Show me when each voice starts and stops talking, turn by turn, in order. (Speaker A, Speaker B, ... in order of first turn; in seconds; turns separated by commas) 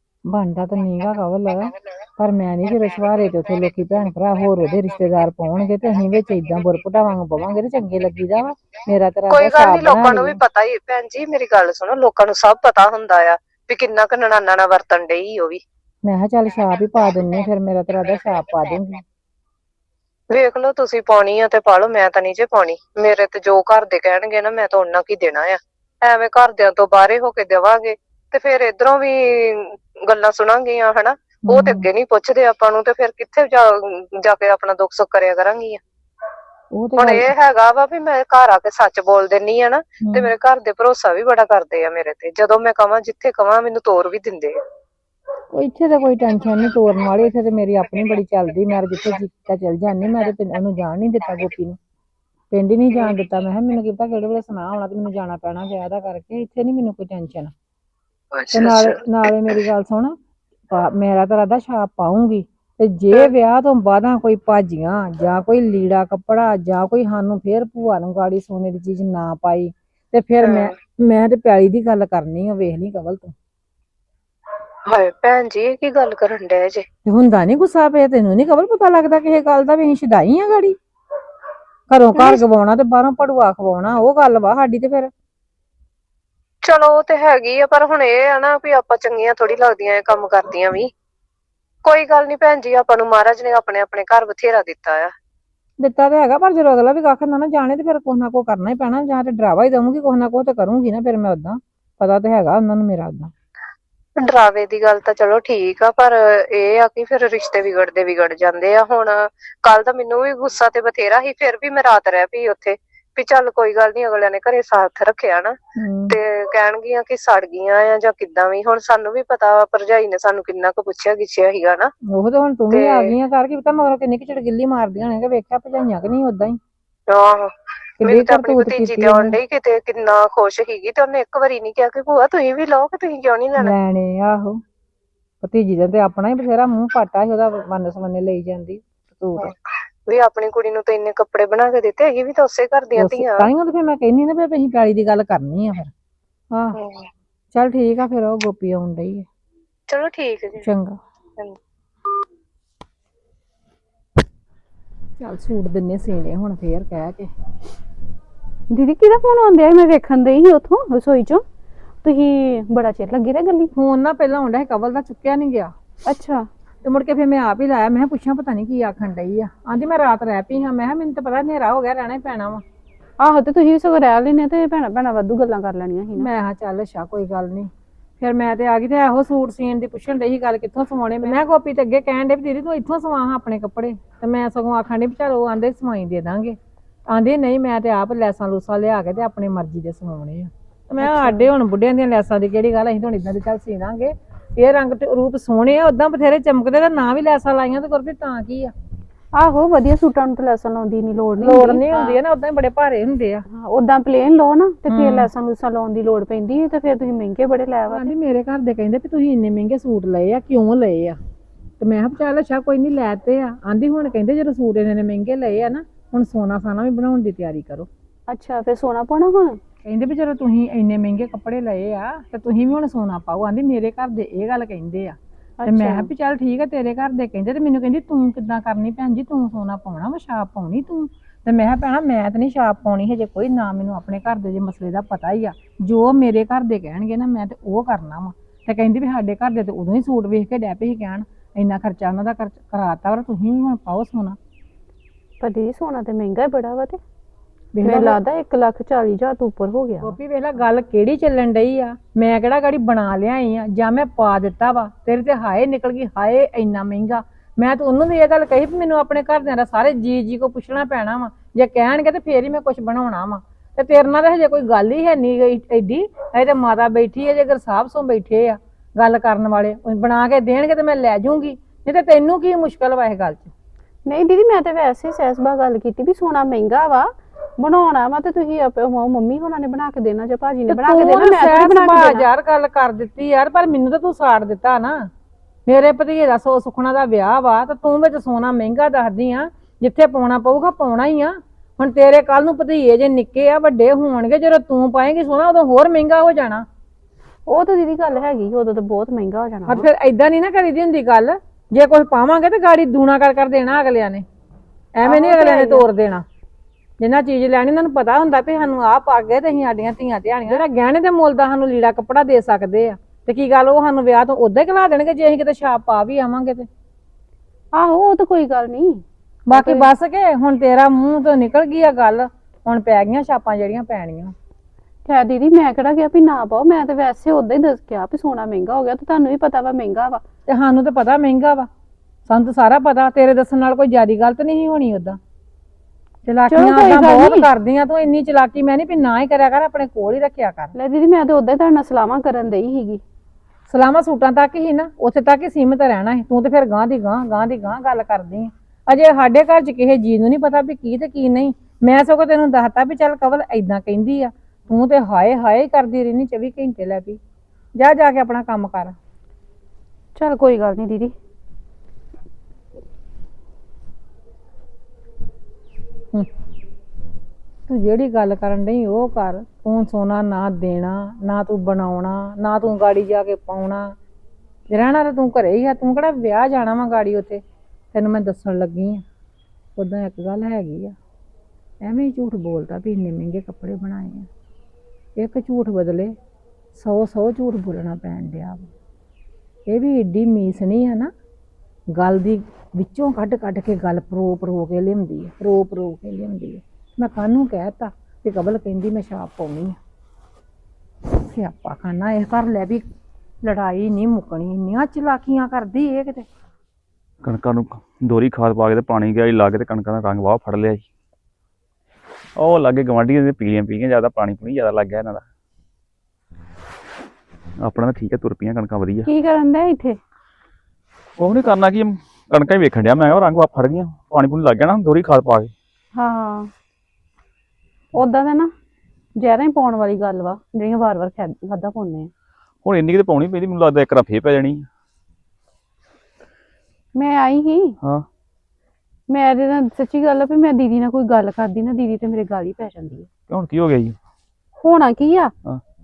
Speaker A: 0.3-10.4, Speaker B: 9.3-15.6, Speaker A: 16.1-19.0, Speaker B: 20.3-35.8, Speaker A: 31.5-31.9, Speaker A: 36.7-37.3, Speaker B: 37.0-44.6, Speaker A: 40.0-40.3, Speaker A: 45.5-51.8, Speaker A: 52.5-57.5, Speaker B: 58.3-59.0, Speaker A: 58.5-60.2, Speaker A: 60.7-73.3, Speaker B: 70.4-70.7, Speaker B: 74.9-76.9, Speaker A: 77.1-80.8, Speaker A: 81.9-85.1, Speaker B: 82.2-82.4, Speaker B: 86.6-90.9, Speaker B: 91.8-95.1, Speaker A: 95.8-103.3, Speaker B: 104.2-115.6, Speaker A: 115.8-116.2, Speaker B: 116.1-121.9, Speaker A: 122.1-126.6, Speaker B: 122.7-123.1, Speaker B: 127.1-127.5, Speaker A: 128.0-129.4, Speaker B: 128.0-133.7, Speaker A: 133.6-134.6, Speaker A: 135.4-139.5, Speaker B: 140.1-143.5, Speaker A: 142.9-145.9, Speaker B: 146.8-147.1, Speaker A: 147.5-149.3, Speaker B: 149.9-150.7, Speaker A: 150.6-151.0, Speaker A: 155.2-157.3, Speaker C: 158.7-161.4, Speaker C: 162.0-163.7, Speaker A: 163.7-165.7, Speaker C: 166.1-166.5, Speaker A: 166.8-172.6, Speaker C: 173.2-176.3, Speaker A: 176.2-186.6, Speaker A: 187.1-198.7, Speaker C: 191.0-191.5, Speaker C: 199.3-202.2, Speaker A: 201.4-203.4, Speaker C: 203.5-208.1, Speaker A: 204.9-205.3, Speaker A: 207.9-211.2, Speaker A: 211.8-217.9, Speaker C: 218.3-219.6, Speaker A: 219.9-244.4, Speaker C: 225.6-226.1, Speaker C: 245.4-247.0, Speaker A: 247.8-248.2, Speaker C: 247.8-250.2, Speaker A: 250.0-273.5, Speaker C: 274.1-282.3, Speaker A: 280.7-285.1, Speaker A: 285.7-296.7, Speaker C: 297.5-299.9, Speaker A: 299.7-304.2, Speaker A: 305.0-306.2, Speaker C: 305.1-305.9, Speaker A: 307.0-316.7, Speaker C: 317.7-319.9, Speaker A: 319.5-324.4, Speaker C: 325.1-330.2, Speaker A: 330.5-331.7, Speaker A: 332.3-335.2, Speaker A: 336.3-340.7, Speaker C: 336.5-337.5, Speaker C: 340.8-343.0, Speaker A: 343.7-357.2, Speaker A: 357.8-359.0, Speaker C: 360.2-361.1, Speaker A: 367.7-373.9, Speaker A: 374.7-377.4, Speaker A: 377.9-379.0, Speaker A: 379.8-381.0, Speaker A: 381.8-384.3, Speaker A: 385.2-386.1, Speaker A: 386.8-388.7, Speaker A: 389.7-391.1, Speaker A: 391.9-399.8, Speaker A: 401.1-402.9, Speaker A: 403.4-406.3, Speaker D: 407.2-410.9, Speaker D: 412.4-415.2, Speaker D: 417.6-419.1, Speaker C: 419.1-420.0, Speaker D: 421.2-425.5, Speaker C: 425.9-426.5, Speaker C: 427.9-428.5, Speaker C: 429.2-432.1, Speaker D: 432.6-434.7, Speaker C: 436.9-437.8, Speaker C: 439.1-443.1, Speaker D: 443.3-444.0, Speaker C: 444.6-445.3